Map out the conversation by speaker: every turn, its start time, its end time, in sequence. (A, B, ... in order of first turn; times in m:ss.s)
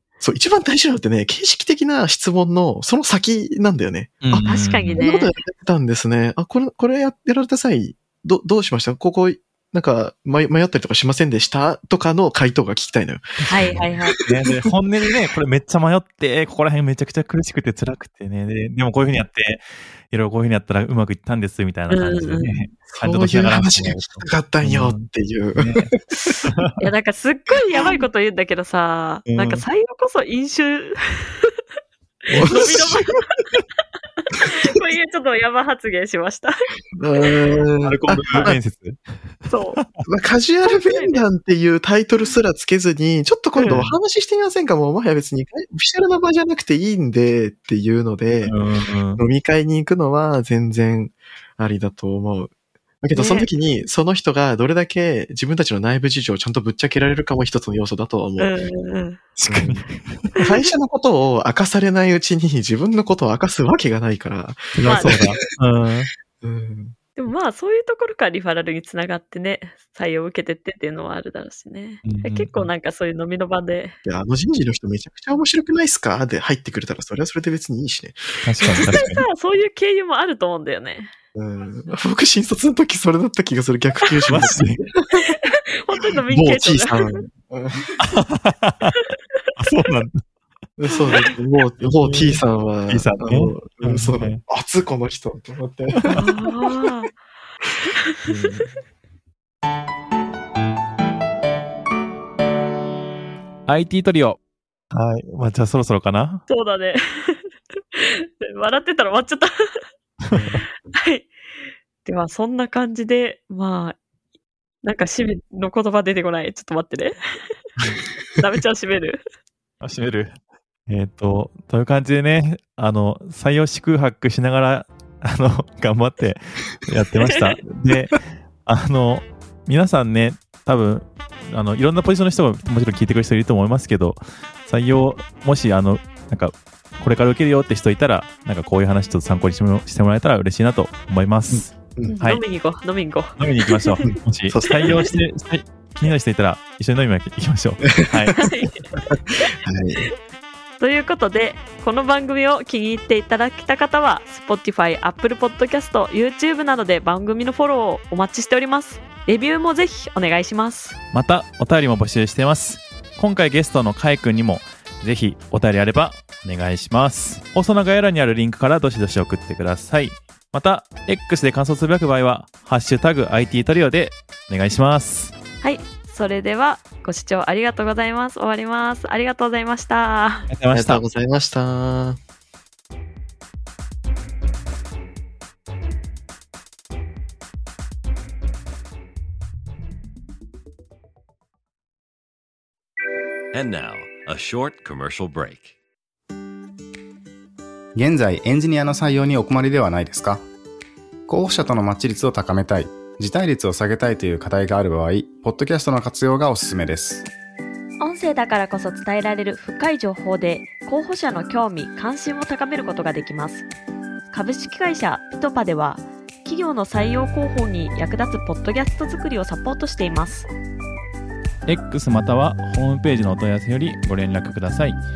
0:00.2-0:13.4 A
0:04.2-0:05.0 B
0:04.4-0:05.3 C
0:13.4-0:25.9 B
0:13.5-0:14.2 C
0:21.9-0:22.6 C
0:23.0-0:26.4 A
0:26.4-0:26.8 B
0:26.8-0:31.5 C
0:29.3-0:29.6 B
0:32.3-0:33.0 B
0:32.3-0:33.0 A
0:32.4-0:33.2 C
0:34.2-0:36.6 C
0:37.0-0:38.6 A
0:37.8-0:39.0 B
0:39.5-0:39.8 C
0:39.8-0:40.0 B
0:40.0-0:48.5 A
0:40.6-0:41.2 C
0:43.5-0:43.8 C
0:48.4-0:49.2 B
0:49.2-0:58.5 A
0:53.1-0:53.5 C
0:58.4-0:59.2 C
0:59.4-1:00.3 B
0:59.5-0:59.8 A
1:00.4-1:05.3 A
1:04.7-1:06.1 B
1:04.8-1:05.2 C
1:06.4-1:07.0 A
1:07.2-1:14.0 C
1:12.0-1:12.7 B
1:14.0-1:19.0 A
1:18.4-1:19.2 B
1:18.7-1:21.1 C
1:21.3-1:25.3 A
1:24.3-1:24.8 B
1:25.3-1:27.2 C
1:26.3-1:28.0 A
1:28.0-1:29.0 B
1:29.6-1:30.2 B
1:30.8-1:36.3 A
1:32.0-1:34.4 B
1:36.0-1:36.3 B
1:36.2-1:37.1 C
1:38.3-1:38.6 A
1:43.7-1:44.4 B
1:44.9-1:46.4 B
1:46.5-1:49.8 C
1:50.2-1:50.6 B
1:50.3-1:50.6 A
1:50.9-1:51.3 C
1:52.0-1:54.0 C
1:54.8-1:57.6 C
1:58.4-1:59.2 C
1:59.8-2:00.3 B
2:00.9-2:22.4 B
2:21.5-2:22.2 A
2:22.1-2:24.0 C
2:23.4-2:28.5 B
2:24.0-2:24.6 A
2:24.6-2:25.1 C
2:28.0-2:28.4 A
2:28.3-2:28.8 C
2:29.1-2:30.1 A
2:30.8-2:41.0 C
2:41.1-2:55.3 B
2:55.6-3:00.5 C
3:00.5-3:01.0 B
3:00.7-3:02.2 A
3:13.5-3:15.8 D
3:18.0-3:20.4 E
3:21.3-3:27.3 E
3:28.0-3:33.6 C
3:34.3-3:40.5 C
3:41.6-3:45.0 B